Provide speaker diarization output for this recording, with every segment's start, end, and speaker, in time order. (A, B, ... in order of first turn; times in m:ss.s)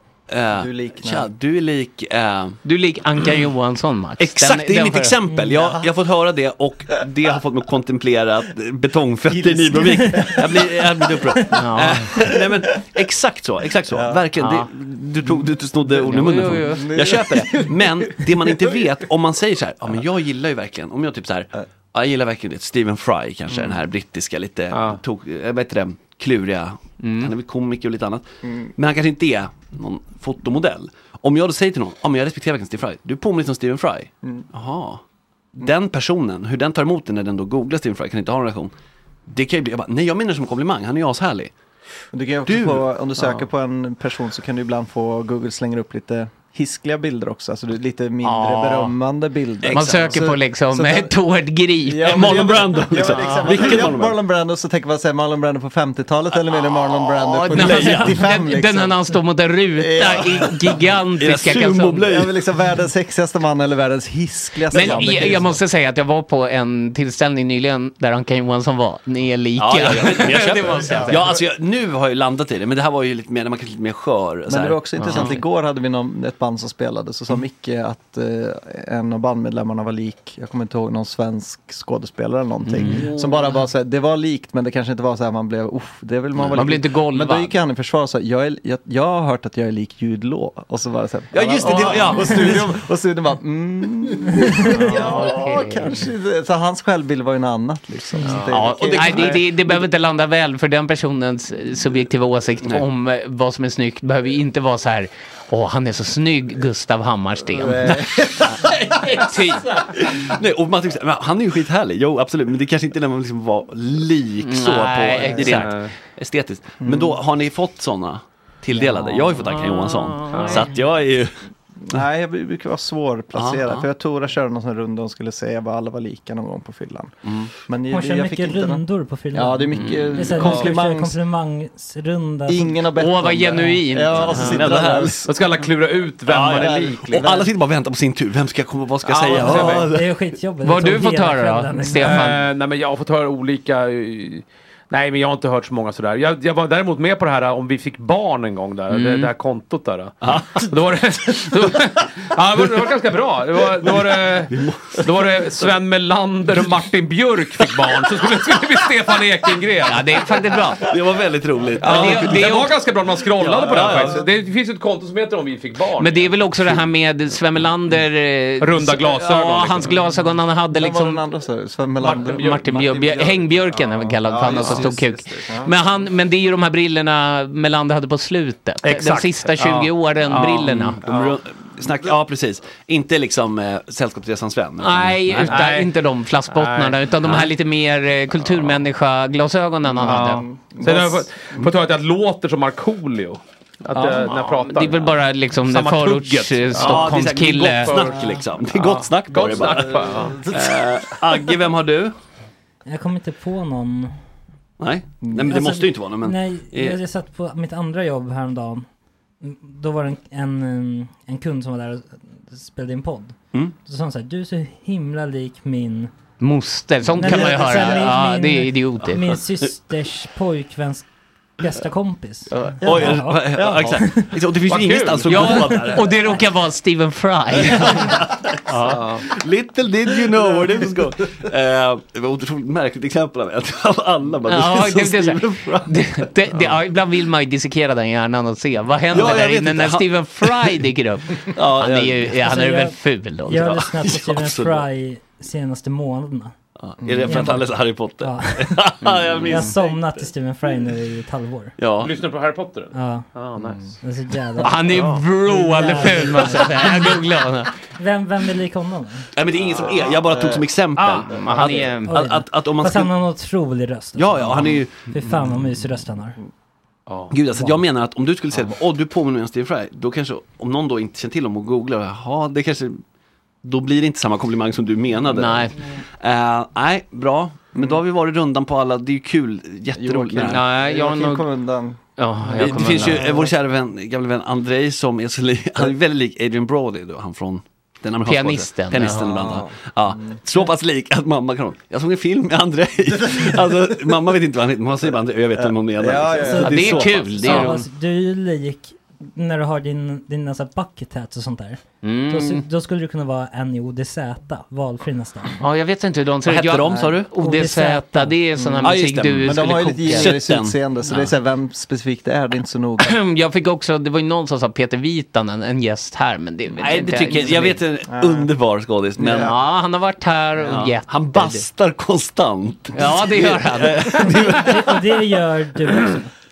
0:00.3-0:02.6 A
0:00.5-0:01.3 B
0:02.6-0:05.2 C
0:04.2-0:28.2 A
0:09.3-0:10.7 B
0:11.5-0:12.2 C
0:13.9-0:14.2 B
0:14.4-0:14.7 C
0:15.9-0:18.8 B
0:16.0-0:16.9 C
0:24.7-0:25.0 D
0:27.0-0:27.3 C
0:28.8-0:35.0 A
0:35.5-0:38.7 A
0:39.3-0:41.5 A
0:42.1-0:51.1 B
0:42.5-0:42.8 A
0:48.2-0:48.9 C
0:49.6-0:50.2 A
0:49.7-0:53.4 C
0:51.8-0:59.1 B
0:52.0-0:54.2 A
0:57.3-1:02.1 C
0:57.5-0:58.2 A
0:59.8-1:00.6 B
1:01.2-1:02.3 A
1:02.1-1:05.6 B
1:04.7-1:11.2 C
1:04.7-1:05.2 A
1:09.6-1:15.4 A
1:14.5-1:39.5 B
1:15.0-1:15.4 C
1:22.7-1:23.0 C
1:22.9-1:23.4 A
1:26.5-1:27.5 C
1:31.3-1:32.7 A
1:34.9-1:35.9 C
1:38.4-1:48.1 C
1:38.8-1:39.4 A
1:47.5-1:48.7 B
1:49.0-1:49.8 C
1:49.8-2:01.3 A
1:54.4-1:55.7 C
1:55.5-1:55.9 D
1:56.8-1:57.2 B
1:59.4-2:00.7 C
2:00.3-2:00.7 D
2:01.9-2:11.2 B
2:03.3-2:03.8 A
2:07.2-2:07.5 A
2:07.9-2:12.8 E
2:09.8-2:10.6 A
2:12.5-2:15.3 B
2:13.0-2:14.6 C
2:14.1-2:15.3 A
2:15.2-2:17.3 D
2:16.3-2:20.1 A
2:16.5-2:17.5 B
2:19.0-2:19.9 D
2:19.3-2:22.2 E
2:20.6-2:22.4 C
2:22.0-2:40.4 D
2:28.9-2:29.3 C
2:30.2-2:30.6 A
2:34.0-2:35.7 A
2:39.8-2:40.9 C
2:40.8-2:42.6 A
2:41.8-2:46.4 D
2:41.8-2:42.7 C
2:43.4-2:44.3 A
2:46.0-2:51.2 C
2:48.6-2:50.0 D
2:50.7-2:55.7 B
2:52.0-2:52.7 D
2:52.2-3:01.0 C
2:58.8-3:01.4 D
3:00.6-3:05.6 A
3:04.8-3:10.4 C
3:05.4-3:05.9 D
3:06.5-3:07.0 D
3:10.0-3:20.5 D
3:10.1-3:11.4 B
3:13.9-3:18.1 C
3:16.8-3:22.1 A
3:19.7-3:20.8 B
3:22.8-3:24.1 E
3:24.8-3:27.0 A
3:25.2-3:25.5 B
3:25.4-3:28.9 E
3:29.4-3:36.1 E
3:36.4-3:39.2 C
3:37.2-3:41.0 E
3:37.5-3:37.8 B
3:41.6-3:44.3 E
3:42.6-3:46.2 A
3:43.6-3:43.9 B
3:44.6-3:45.9 D
3:45.2-3:48.1 C
3:47.6-3:56.2 A
3:48.7-3:49.3 D
3:54.5-4:03.7 C
3:59.1-4:00.8 A
4:01.4-4:02.4 A
4:02.4-4:06.5 E
4:03.6-4:04.8 A
4:06.8-4:09.9 A
4:07.0-4:07.4 B
4:07.2-4:08.9 E
4:09.4-4:11.8 E
4:11.8-4:12.1 A
4:12.0-4:13.9 D
4:12.9-4:13.3 E
4:14.0-4:17.2 E
4:14.6-4:17.7 C
4:14.9-4:15.2 D
4:18.0-4:19.3 E
4:19.3-4:23.1 A
4:21.0-4:22.0 D
4:21.0-4:22.1 C
4:22.1-4:26.4 E
4:24.2-4:25.1 A
4:27.1-4:27.4 D
4:27.3-4:33.0 A
4:33.6-4:40.6 A
4:35.3-4:35.7 C
4:39.9-4:42.0 B
4:40.4-4:41.4 C
4:42.2-4:43.3 C
4:42.5-4:57.7 A
4:42.6-4:43.5 B
4:48.2-4:49.4 C
4:49.1-4:50.4 B
4:53.3-4:53.6 B
4:55.6-4:56.9 B
4:56.3-5:05.6 E
4:56.6-4:57.8 C
5:02.0-5:02.6 C
5:05.6-5:10.4 C
5:06.4-5:07.3 A
5:07.4-5:08.4 E
5:08.8-5:10.8 A
5:09.4-5:13.2 B
5:13.0-5:17.8 C
5:16.8-5:19.6 A
5:18.1-5:18.5 B
5:19.2-5:19.5 B
5:19.3-5:21.7 C
5:20.6-5:25.1 A
5:22.9-5:24.3 C
5:24.2-5:26.3 E